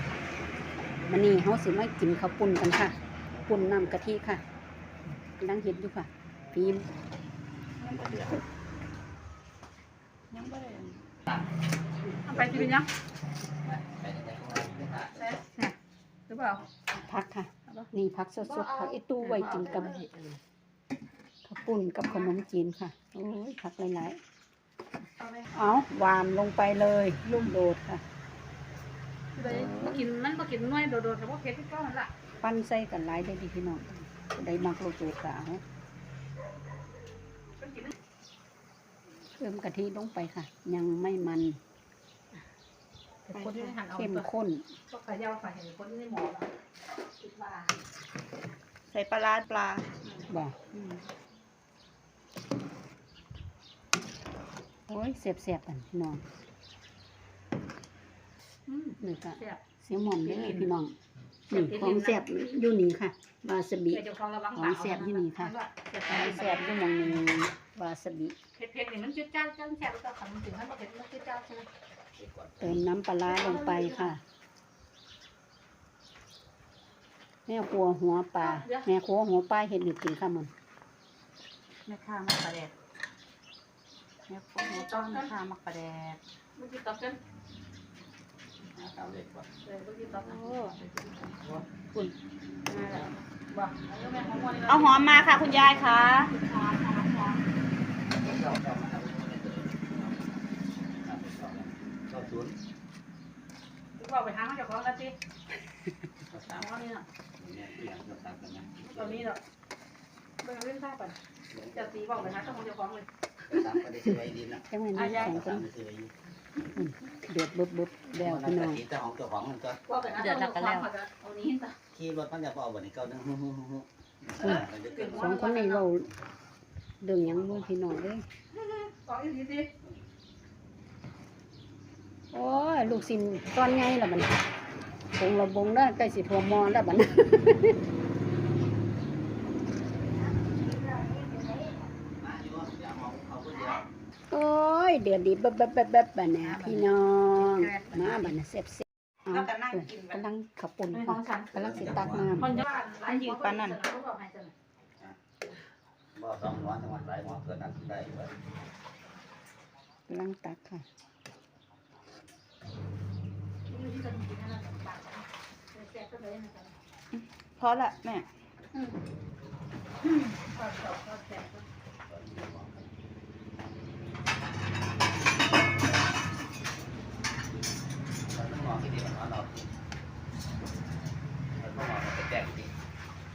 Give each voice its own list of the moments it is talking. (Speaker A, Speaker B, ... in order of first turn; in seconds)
Speaker A: 1.1-4.4, 5.4-6.9, 16.9-20.1, 21.4-24.2, 25.5-28.0, 29.4-30.0, 32.4-35.6, 39.4-41.6, 43.9-44.6, 50.3-51.0, 54.9-56.2, 59.0-61.0, 61.5-64.0, 64.6-65.5, 66.1-68.4, 72.6-74.2, 77.5-80.5, 114.7-115.6, 116.8-118.8, 124.4-126.1, 127.0-128.2, 132.3-134.3, 135.2-137.8, 144.3-152.6, 160.1-160.9
Speaker B: 7.8-8.3, 10.3-10.9, 18.5-20.4, 43.4-43.8, 48.9-49.9, 81.9-82.7, 84.3-86.2, 90.2-90.8, 91.8-92.1, 94.7-96.3, 115.0-115.3, 120.2-120.9, 153.1-153.8, 167.1-168.3
Speaker C: 12.3-12.7, 13.7-15.3, 72.2-72.8, 88.7-89.5, 91.3-91.6, 98.1-100.4, 101.0-102.6, 106.3-106.7, 107.4-109.3, 111.5-111.8, 113.5-116.1, 118.2-119.8, 121.9-125.4, 142.2-143.8, 151.5-152.3, 156.2-158.3, 172.1-172.9, 178.3-179.7, 181.6-182.7
Speaker D: 12.3-12.9, 15.1-15.8, 16.3-16.6, 25.2-25.5, 27.2-27.5, 29.4-32.1, 37.6-37.9, 43.3-44.3, 44.9-46.5, 47.2-47.8, 58.7-59.6, 60.2-60.7, 61.5-62.3, 63.9-66.7, 68.6-71.7, 73.3-74.2, 78.4-78.9, 84.6-85.3, 86.6-87.2, 89.7-91.2, 92.7-97.4, 104.0-105.2, 106.3-107.1, 108.8-109.4, 110.4-111.2, 111.7-113.1, 119.9-121.8, 124.9-125.8, 128.6-129.7, 146.5-148.2, 149.3-150.2, 150.9-151.5, 152.4-154.5, 163.7-166.7, 170.0-171.7